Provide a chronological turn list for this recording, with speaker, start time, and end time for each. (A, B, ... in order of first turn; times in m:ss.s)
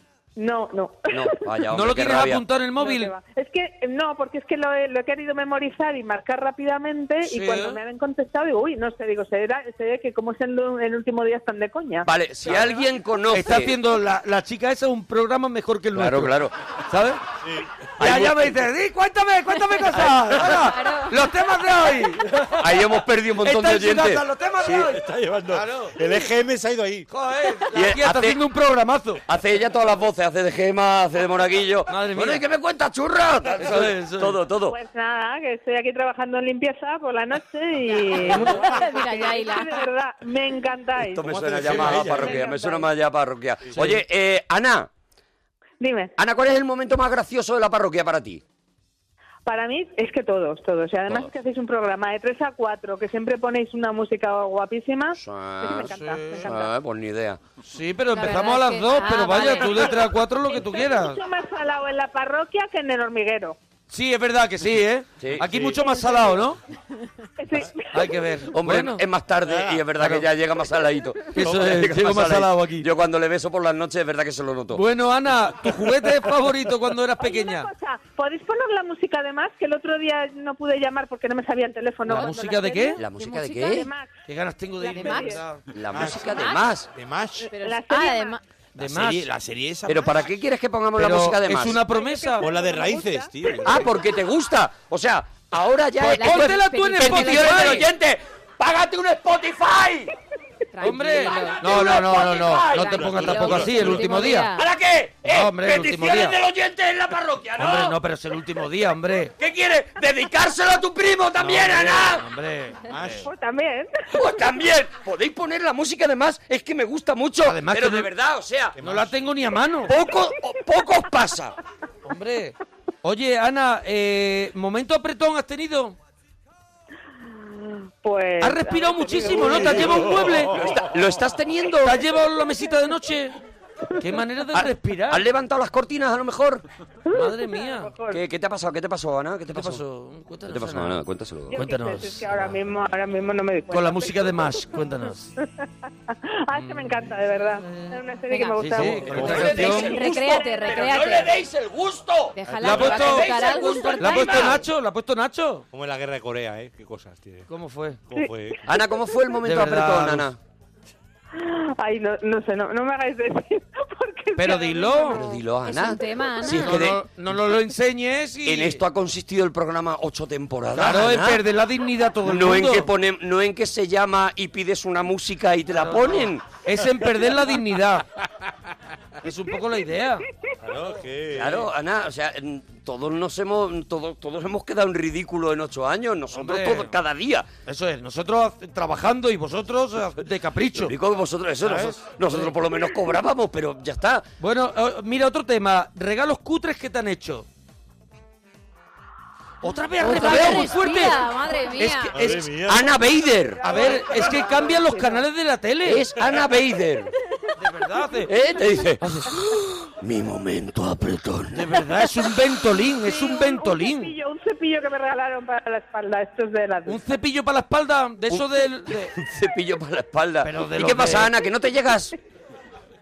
0:00.4-0:01.5 A
0:01.1-0:02.4 B
0:01.7-0:03.1 C
0:02.8-0:12.1 A
0:07.2-0:07.8 C
0:12.0-0:13.7 B
0:13.3-0:16.4 C
0:15.9-0:16.5 B
0:16.9-0:17.3 C
0:17.4-0:17.9 D
0:18.0-0:22.6 C
0:18.0-0:18.5 B
0:19.7-0:21.2 E
0:22.6-0:24.8 B
0:23.4-0:26.0 C
0:24.7-0:27.1 D
0:27.1-0:29.2 C
0:27.7-0:28.4 B
0:29.3-0:34.8 B
0:31.9-0:32.4 C
0:33.6-0:34.4 C
0:34.7-0:42.9 A
0:38.2-0:39.9 E
0:41.1-0:44.9 B
0:41.2-0:42.5 D
0:43.7-0:44.0 C
0:45.8-0:46.1 A
0:46.2-0:48.4 B
0:49.5-0:56.7 A
0:55.2-0:57.4 B
0:55.9-0:56.6 C
0:57.6-1:01.2 C
0:58.1-1:00.0 E
1:00.5-1:03.6 A
1:03.9-1:06.6 C
1:05.2-1:05.6 B
1:05.3-1:05.8 D
1:05.8-1:06.4 A
1:07.4-1:08.3 A
1:07.9-1:09.0 C
1:08.5-1:14.8 B
1:09.4-1:09.9 D
1:10.0-1:10.3 C
1:11.3-1:12.9 C
1:14.7-1:17.7 C
1:17.2-1:23.0 A
1:22.1-1:23.0 C
1:23.0-1:23.9 B
1:23.1-1:23.9 E
1:23.7-1:24.1 A
1:24.3-1:25.6 C
1:24.8-1:25.4 A
1:24.9-1:25.4 E
1:25.7-1:26.9 B
1:25.9-1:27.5 D
1:27.5-1:28.4 A
1:27.5-1:28.4 E
1:28.8-1:29.3 C
1:28.8-1:30.3 D
1:29.9-1:31.8 B
1:31.0-1:32.5 C
1:31.7-1:33.3 A
1:32.4-1:33.9 D
1:33.6-1:40.1 B
1:36.0-1:37.9 C
1:36.0-1:37.9 E
1:40.7-1:44.7 E
1:40.8-1:44.5 C
1:41.6-1:43.6 B
1:43.0-1:44.1 D
1:44.5-1:48.0 B
1:45.2-1:46.4 C
1:47.6-1:49.3 C
1:49.4-1:52.3 B
1:51.4-1:51.9 D
1:51.6-1:53.3 C
1:52.9-1:53.3 D
1:53.3-1:54.1 A
1:54.1-1:58.8 B
1:57.4-1:58.1 C
1:58.8-1:59.2 D
1:58.8-2:00.0 C
1:59.9-2:01.6 B
2:02.1-2:06.0 C
2:07.6-2:09.8 A
2:08.4-2:10.6 C
2:09.2-2:10.8 D
2:10.5-2:12.0 B
2:11.8-2:13.4 C
2:14.0-2:15.2 C
2:14.5-2:16.6 B
2:17.1-2:18.2 A
2:17.1-2:17.9 C
2:18.1-2:19.8 B
2:19.5-2:21.0 C
2:20.5-2:21.6 B
2:21.5-2:24.6 A
2:21.5-2:22.2 C
2:23.7-2:25.3 C
2:26.5-2:31.0 A
2:26.5-2:27.0 C
2:28.3-2:28.8 E
2:28.6-2:30.0 C
2:29.0-2:29.7 D
2:29.1-2:34.6 B
2:29.4-2:31.3 E
2:32.4-2:34.6 E
2:32.4-2:33.0 D
2:32.6-2:33.4 C
2:34.0-2:35.6 C
2:35.7-2:37.5 D
2:37.5-2:38.0 C
2:38.1-2:38.6 D
2:38.7-2:40.4 B
2:39.4-2:40.3 C
2:41.4-2:45.3 A
2:44.4-2:45.2 C
2:45.1-2:47.0 B
2:45.6-2:46.8 E
2:46.4-2:48.8 C
2:48.5-2:51.4 B
2:50.8-2:52.9 C
2:52.2-2:56.4 B
2:55.8-2:58.1 C
2:59.2-3:00.2 C
3:00.6-3:01.7 D
3:01.3-3:07.5 B
3:06.3-3:06.9 C
3:07.7-3:11.0 C
3:10.7-3:14.3 B
3:11.7-3:12.5 C
3:14.4-3:17.5 C
3:19.6-3:22.5 C
3:20.0-3:20.7 B
3:20.0-3:22.2 E
3:22.1-3:23.1 D
3:22.7-3:23.7 B
3:23.6-3:25.2 A
3:23.6-3:26.1 C
3:25.8-3:27.1 B
3:27.6-3:28.3 C
3:28.3-3:31.9 B
3:29.0-3:29.4 C
3:31.5-3:34.1 C
3:32.9-3:37.0 A
3:36.9-3:39.2 C
3:38.3-3:42.2 B
3:40.4-3:41.3 C